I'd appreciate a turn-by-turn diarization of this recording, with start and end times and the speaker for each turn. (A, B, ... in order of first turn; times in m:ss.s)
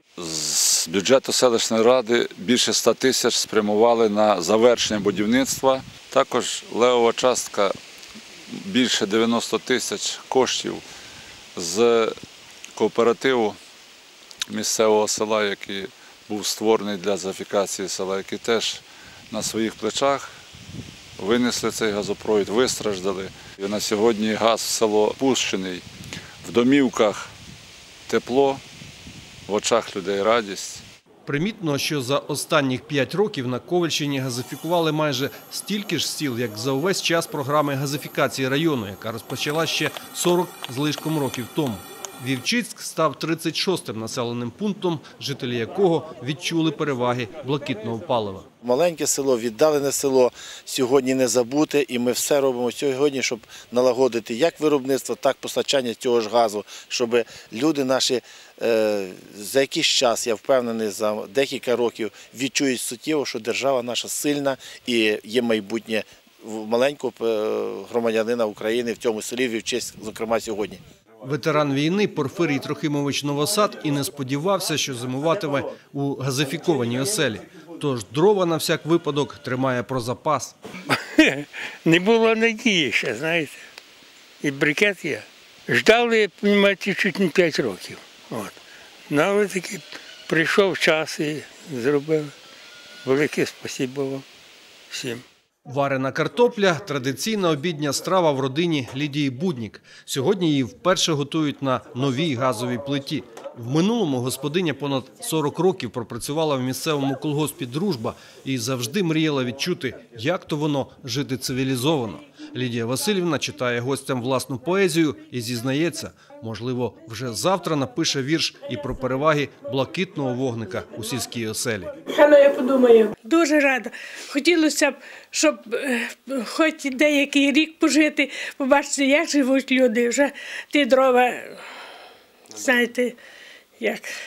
0:00.2-0:07.7 A
0:08.5-0:10.8 A
0:11.6-0:12.2 A
0:12.8-0:13.6 A
0:14.5-0:20.3 A
0:21.2-0:25.8 A
0:26.4-0:27.3 A
0:28.1-0:28.6 A
0:29.5-0:30.8 A
0:31.2-0:48.5 B
0:48.6-1:10.8 C
1:11.2-1:20.6 B
1:20.9-1:23.6 D
1:24.4-1:28.6 D
1:29.1-1:32.3 D
1:33.0-1:34.2 D
1:34.9-1:35.2 D
1:35.7-2:01.9 B
2:02.1-2:11.6 E
2:12.5-2:13.2 E
2:13.8-2:14.1 E